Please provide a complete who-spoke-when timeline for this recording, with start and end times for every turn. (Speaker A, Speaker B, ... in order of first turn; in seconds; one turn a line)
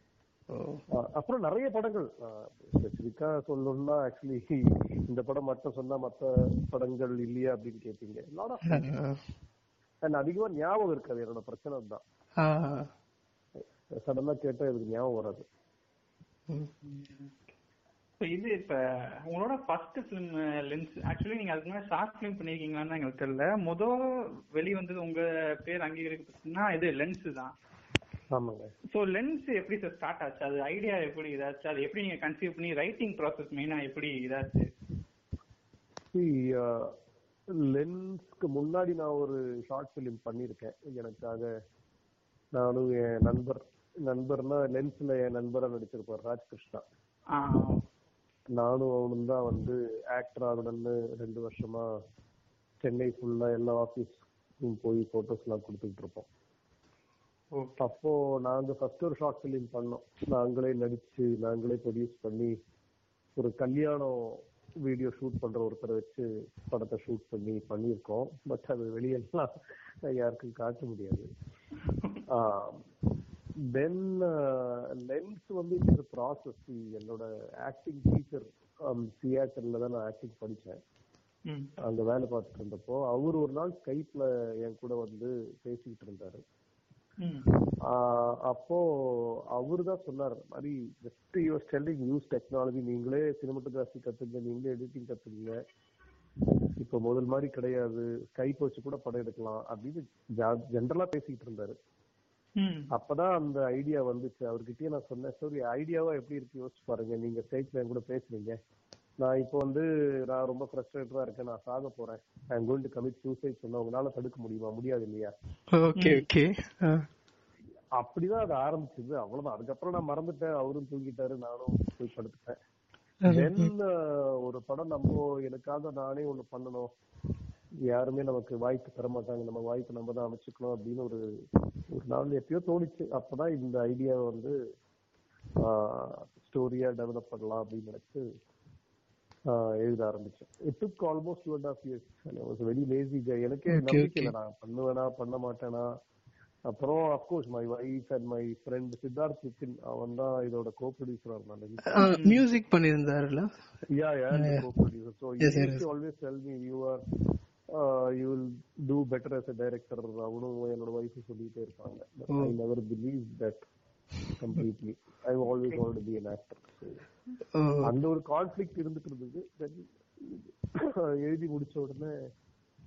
Speaker A: 0.5-0.8
Speaker B: 0.9-8.9
Speaker A: 8.7-9.2
Speaker B: 10.1-12.0
Speaker A: 12.4-12.9
Speaker B: 13.9-15.5
Speaker C: 16.8-17.3
Speaker C: 18.2-27.5
Speaker B: 28.3-28.7
Speaker C: 28.9-34.7
Speaker B: 36.1-37.0
Speaker B: 37.5-41.5
Speaker B: 42.5-46.9
Speaker C: 47.3-47.9
Speaker B: 48.5-51.9
Speaker B: 52.8-56.3
Speaker C: 57.5-57.8
Speaker B: 57.8-62.5
Speaker B: 63.4-71.3
Speaker B: 72.3-72.8
Speaker B: 73.7-80.8
Speaker B: 81.8-86.4
Speaker C: 87.2-87.5
Speaker B: 87.8-95.6
Speaker B: 96.8-101.8
Speaker C: 102.6-102.9
Speaker B: 102.9-108.6
Speaker B: 109.2-115.3
Speaker A: 115.7-117.1
Speaker C: 116.0-116.2
Speaker B: 118.0-122.6
Speaker A: 123.2-123.7
Speaker B: 123.2-126.9
Speaker B: 127.9-131.2
Speaker B: 131.9-134.6
Speaker B: 135.6-138.3
Speaker B: 139.5-145.9
Speaker A: 143.7-144.3
Speaker B: 146.7-152.1
Speaker A: 151.9-153.5
Speaker C: 152.0-152.4
Speaker B: 153.9-157.0
Speaker A: 154.3-154.7
Speaker A: 155.4-155.8
Speaker B: 157.7-163.6
Speaker B: 164.4-167.0
Speaker A: 167.5-167.9
Speaker B: 167.8-172.3